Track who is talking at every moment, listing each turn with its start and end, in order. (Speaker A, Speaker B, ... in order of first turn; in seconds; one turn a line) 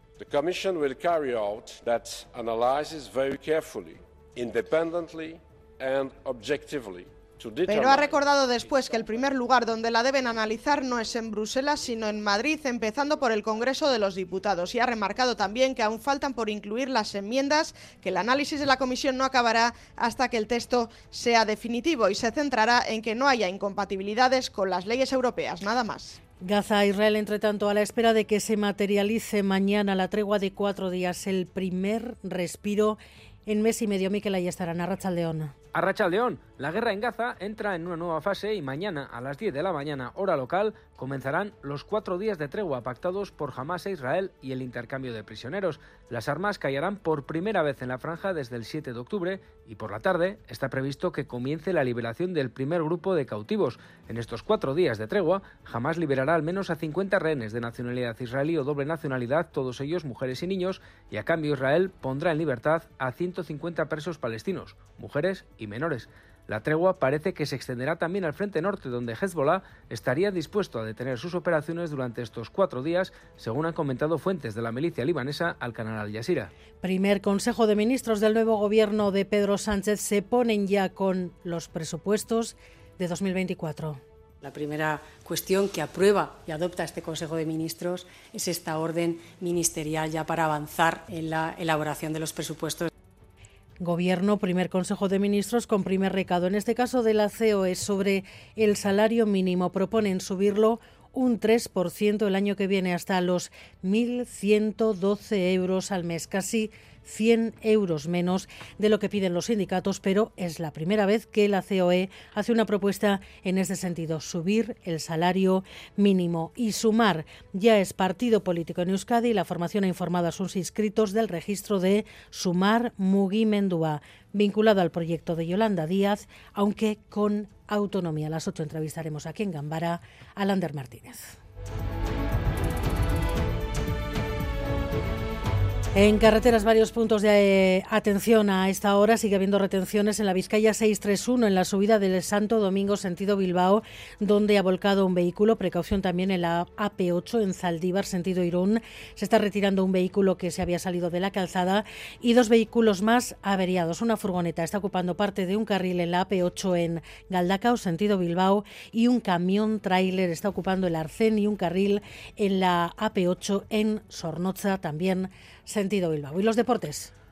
Speaker A: 0.2-9.3
Speaker B: 7.7-26.2
Speaker C: 26.4-35.5
Speaker D: 35.7-76.5
Speaker C: 76.8-84.0
Speaker E: 84.4-92.9
Speaker C: 93.8-131.3
Speaker C: 135.9-167.1